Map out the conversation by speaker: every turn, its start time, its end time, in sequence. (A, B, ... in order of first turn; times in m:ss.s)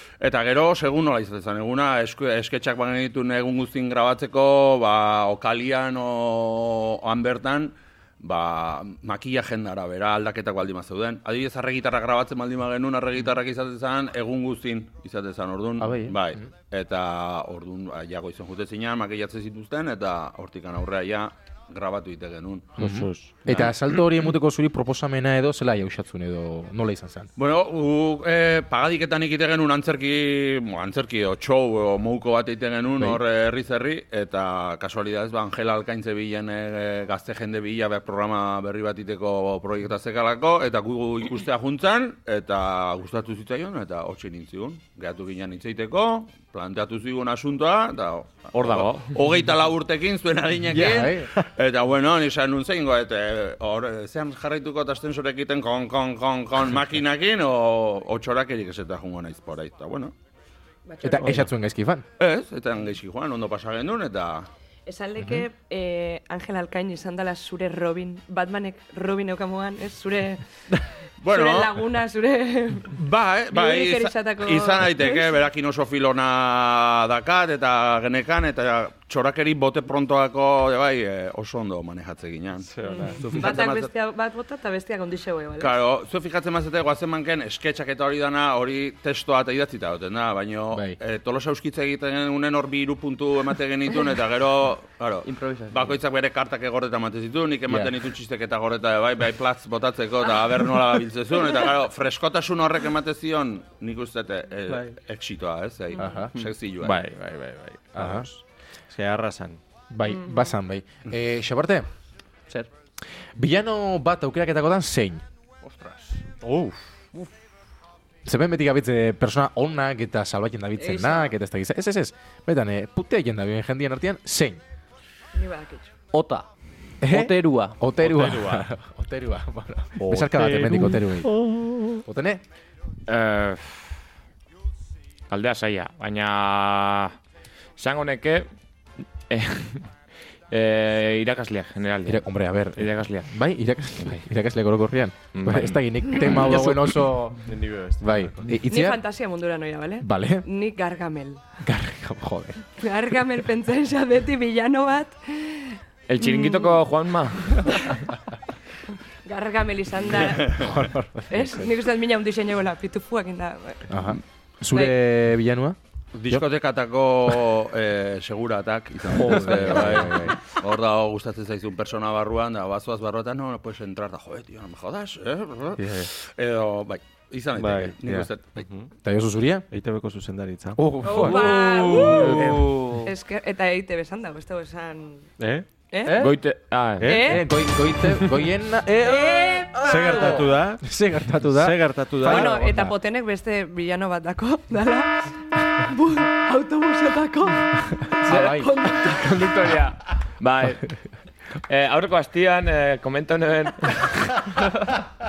0:00.2-0:22.8 A
0:15.8-0:16.4 B
0:22.8-0:27.3 B
0:22.8-0:23.6 C
0:27.4-1:00.1 A
0:48.5-0:49.1 D
0:50.7-0:51.3 B
1:00.9-1:01.4 E
1:01.0-1:02.0 B
1:01.2-1:01.5 C
1:02.2-1:04.5 A
1:04.8-1:10.4 E
1:05.2-1:05.4 B
1:11.2-1:11.8 A
1:11.3-1:13.0 E
1:12.9-1:23.9 A
1:13.5-1:15.3 E
1:22.6-1:23.4 C
1:22.8-1:25.8 E
1:25.6-1:47.0 A
1:35.2-1:36.0 F
1:44.7-1:45.0 F
1:46.0-1:46.3 B
1:46.8-1:49.6 C
1:48.0-1:48.3 B
1:49.9-1:51.9 B
1:53.4-1:55.2 B
1:55.7-1:56.0 A
1:56.4-1:56.8 C
1:58.2-2:04.6 B
2:00.8-2:01.3 E
2:05.3-2:05.9 E
2:06.1-2:06.5 F
2:07.0-2:12.4 B
2:07.1-2:07.8 F
2:07.9-2:08.7 C
2:10.0-2:12.0 C
2:13.1-2:13.9 D
2:15.3-2:17.2 D
2:17.8-2:18.5 D
2:19.3-2:19.8 D
2:20.5-2:22.2 D
2:22.0-2:29.0 B
2:22.8-2:23.3 D
2:25.3-2:26.3 D
2:26.4-2:28.5 C
2:28.7-2:31.4 E
2:30.0-2:30.4 B
2:31.6-2:32.6 B
2:32.7-2:36.8 E
2:36.1-2:38.0 D
2:39.2-2:40.6 E
2:40.4-2:41.7 B
2:41.3-2:43.9 E
2:43.9-2:45.8 B
2:46.1-2:58.6 A
2:49.1-2:50.4 B
2:49.2-2:50.1 C
2:57.6-2:58.0 C
2:58.6-2:58.9 C
2:59.0-2:59.7 B
2:59.7-3:00.9 C
3:00.8-3:02.6 B
3:01.0-3:02.4 E
3:01.3-3:02.8 A
3:02.3-3:02.6 C
3:03.0-3:05.3 E
3:05.4-3:05.7 C
3:05.9-3:06.2 E
3:06.1-3:07.2 D
3:07.0-3:07.4 C
3:07.0-3:07.4 E
3:07.2-3:09.7 B
3:09.0-3:10.4 E
3:09.8-3:10.9 C
3:10.8-3:12.9 B
3:11.5-3:12.6 C
3:12.2-3:19.2 E
3:18.2-3:18.7 B
3:18.3-3:20.9 D
3:21.7-3:24.9 D